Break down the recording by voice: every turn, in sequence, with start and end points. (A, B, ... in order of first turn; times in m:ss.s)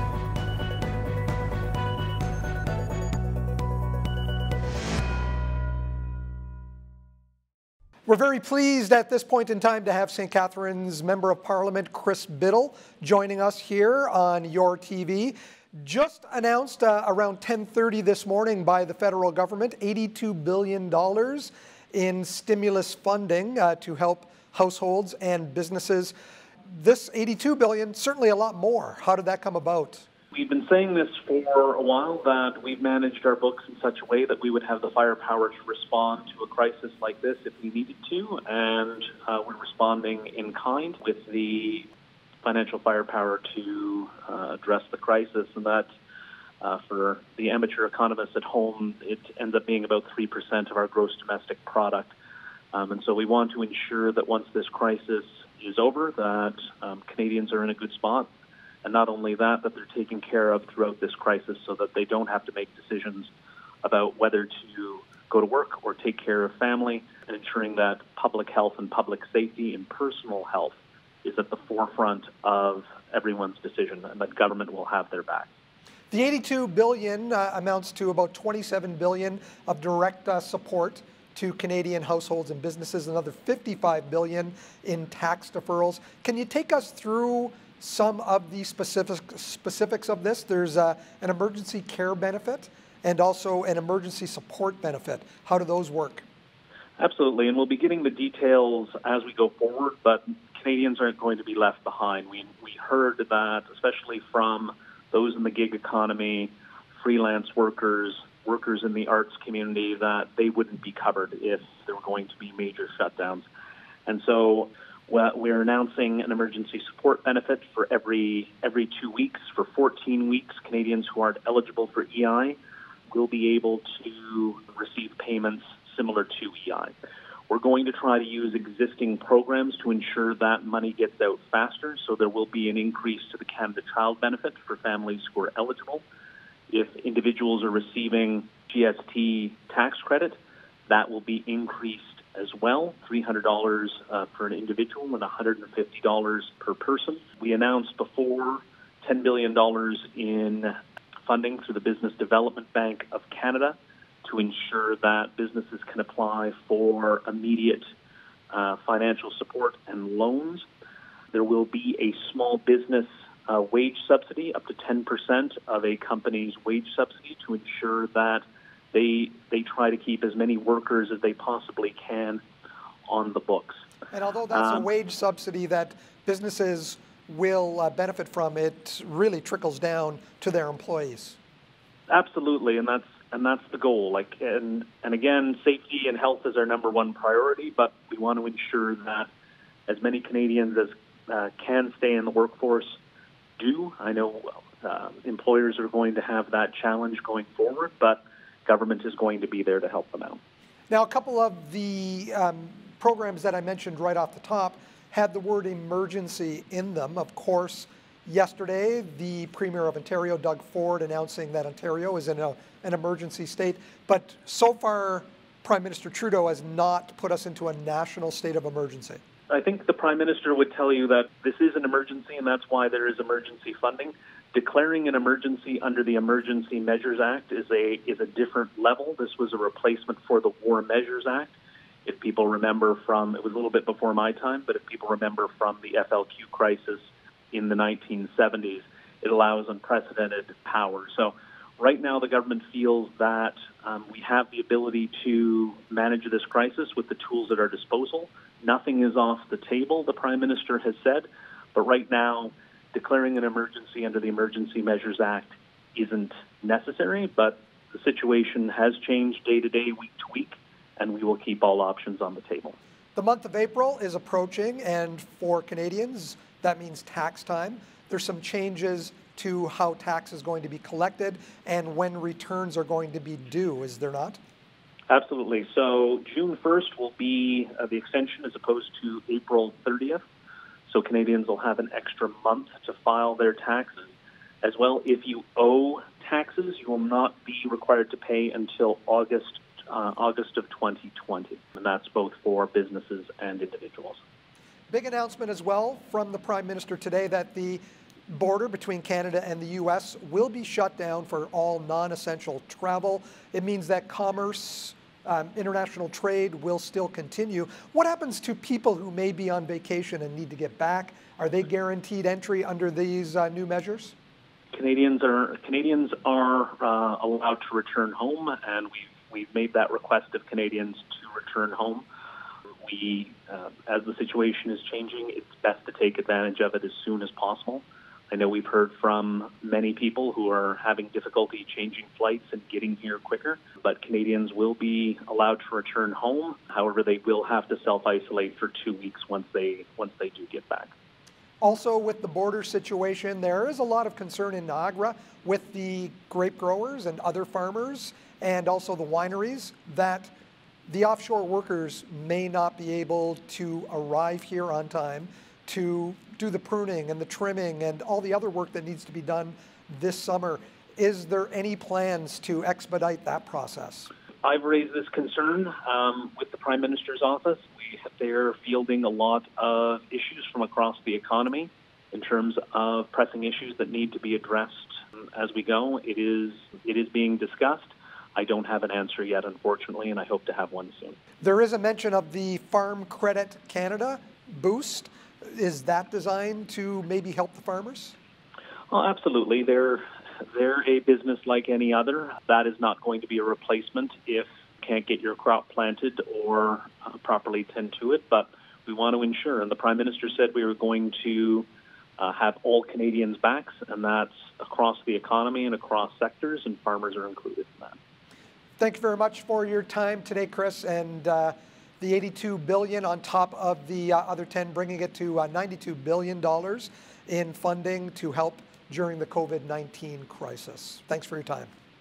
0:08.1-0:26.1 A
0:26.7-0:30.0 A
0:30.3-0:41.9 B
0:42.4-0:45.9 B
0:46.6-0:52.1 B
0:52.7-0:58.3 B
0:58.8-1:03.3 B
1:03.8-1:15.5 B
1:16.1-1:36.2 A
1:37.0-1:53.4 B
1:54.1-2:02.6 B
2:03.1-2:06.9 B
2:07.5-2:16.0 B
2:16.7-2:30.7 B
2:31.2-2:37.8 B
2:38.5-2:40.6 B
2:41.3-2:52.4 B
2:53.1-2:53.8 B
2:54.1-3:01.4 A
2:54.5-2:54.8 B
3:02.1-3:09.3 B
3:09.9-3:13.0 B
3:13.6-3:20.4 B
3:20.9-3:39.2 A
3:39.5-4:22.8 B
4:23.2-4:34.4 A
4:35.1-4:40.2 B
4:40.9-4:54.2 B
4:54.9-5:14.1 A
5:14.7-5:22.0 B
5:22.8-5:40.9 B
5:41.6-5:50.3 A
5:50.9-6:04.1 A
6:04.4-6:21.2 B
6:21.4-6:28.2 A
6:28.9-6:30.0 B
6:30.5-6:41.7 B
6:42.2-6:48.0 B
6:48.8-7:01.7 A